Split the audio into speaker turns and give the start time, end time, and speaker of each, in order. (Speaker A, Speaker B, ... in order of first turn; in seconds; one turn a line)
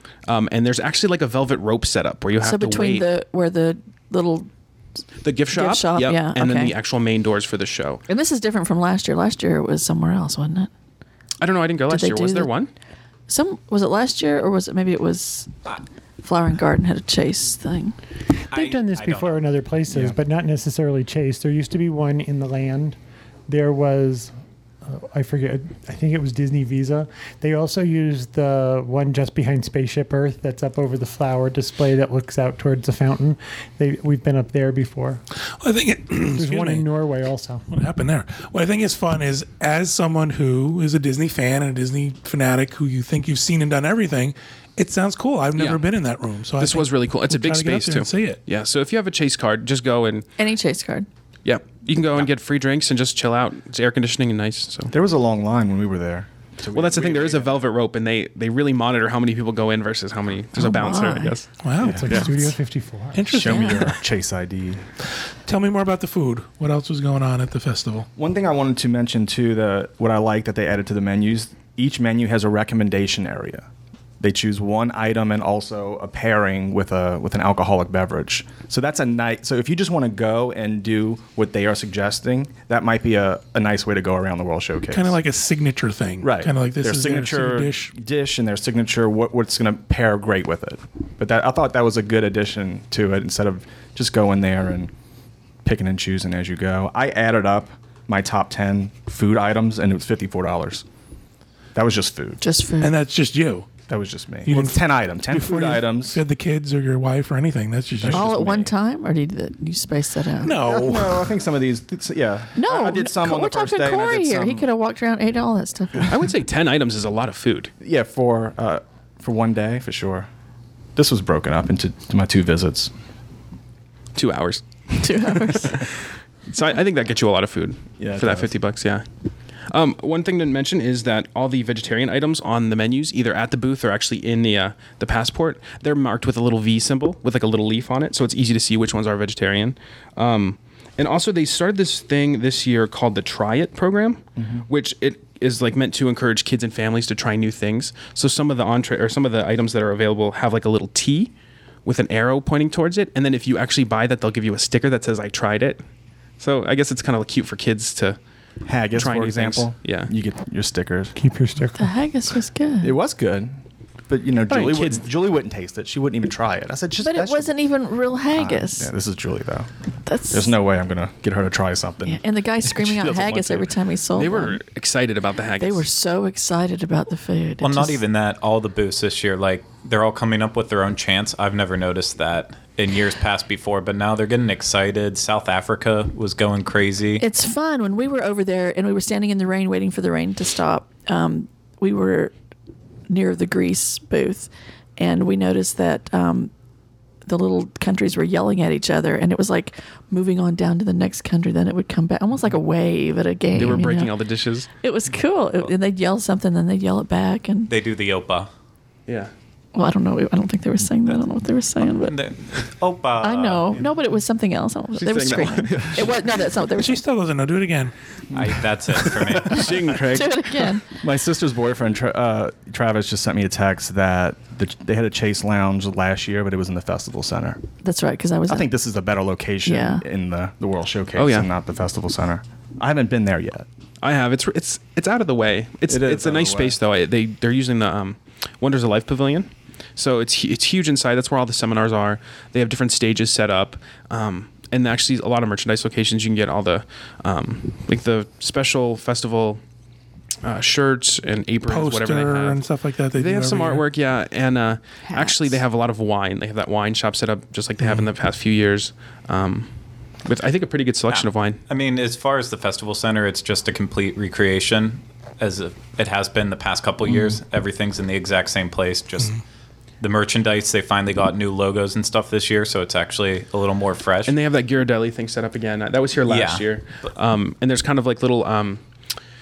Speaker A: 0.3-3.0
Speaker B: 2.4-4.5
Speaker A: 5.2-8.0
Speaker B: 5.5-6.7
Speaker B: 8.1-10.7
Speaker A: 11.4-12.7
Speaker B: 11.9-12.5
Speaker B: 13.3-17.9
Speaker C: 18.5-19.6
Speaker D: 18.5-23.0
Speaker E: 19.9-20.2
Speaker D: 23.5-24.3
Speaker D: 24.8-35.2
Speaker F: 35.5-36.9
Speaker D: 36.3-37.6
Speaker F: 37.7-48.4
Speaker A: 45.5-45.8
Speaker A: 46.6-50.3
Speaker B: 50.4-51.1
Speaker A: 51.4-54.9
Speaker E: 54.9-57.6
Speaker A: 56.7-61.5
Speaker B: 60.6-61.4
Speaker F: 61.6-62.6
Speaker E: 61.8-62.1
Speaker D: 61.8-63.3
Speaker F: 63.1-64.0
Speaker E: 63.3-64.8
Speaker B: 63.4-63.8
Speaker F: 65.5-68.1
Speaker E: 68.2-73.7
Speaker E: 74.2-85.2
Speaker F: 84.9-87.9
Speaker E: 86.2-94.9
Speaker E: 95.6-100.8
Speaker E: 101.7-102.4
Speaker B: 102.4-102.9
Speaker F: 102.8-103.7
Speaker E: 103.9-106.2
Speaker F: 104.5-108.3
Speaker E: 108.0-108.7
Speaker B: 108.1-110.6
Speaker F: 110.4-111.3
Speaker E: 110.6-114.7
Speaker B: 112.5-116.2
Speaker A: 116.1-117.7
Speaker E: 117.8-120.3
Speaker E: 121.0-122.9
Speaker A: 124.1-129.0
Speaker B: 125.0-125.9
Speaker E: 128.0-128.5
Speaker A: 129.7-151.3
Speaker E: 144.4-144.7
Speaker A: 151.8-155.8
Speaker A: 156.4-158.2
Speaker E: 158.7-161.2
Speaker A: 158.9-160.1
Speaker D: 161.2-161.9
Speaker B: 161.7-162.9
Speaker E: 162.8-167.5
Speaker A: 164.5-165.0
Speaker B: 167.0-168.9
Speaker E: 168.3-169.7
Speaker B: 170.1-170.5
Speaker E: 170.3-173.7
Speaker B: 172.1-174.6
Speaker A: 174.1-175.9
Speaker B: 175.6-178.0
Speaker C: 177.6-187.2
Speaker B: 187.2-192.3
Speaker B: 193.1-196.5
Speaker B: 197.2-204.2
Speaker A: 203.5-204.7
Speaker B: 204.8-207.7
Speaker C: 207.7-208.5
Speaker A: 209.1-209.3
Speaker B: 209.7-212.2
Speaker C: 212.0-213.8
Speaker B: 213.2-217.0
Speaker A: 214.9-216.3
Speaker F: 216.8-217.9
Speaker C: 218.3-219.9
Speaker A: 219.4-220.6
Speaker B: 219.6-220.9
Speaker E: 221.0-227.6
Speaker B: 227.8-228.7
Speaker E: 228.5-233.7
Speaker B: 229.6-230.0
Speaker A: 231.2-231.5
Speaker A: 234.0-249.6
Speaker E: 235.9-236.8
Speaker A: 250.4-252.6
Speaker F: 251.7-253.8
Speaker A: 253.1-259.7
Speaker B: 255.1-255.6
Speaker A: 260.2-261.6
Speaker C: 261.1-269.4
Speaker C: 270.0-274.4
Speaker A: 274.3-278.8
Speaker C: 276.2-276.7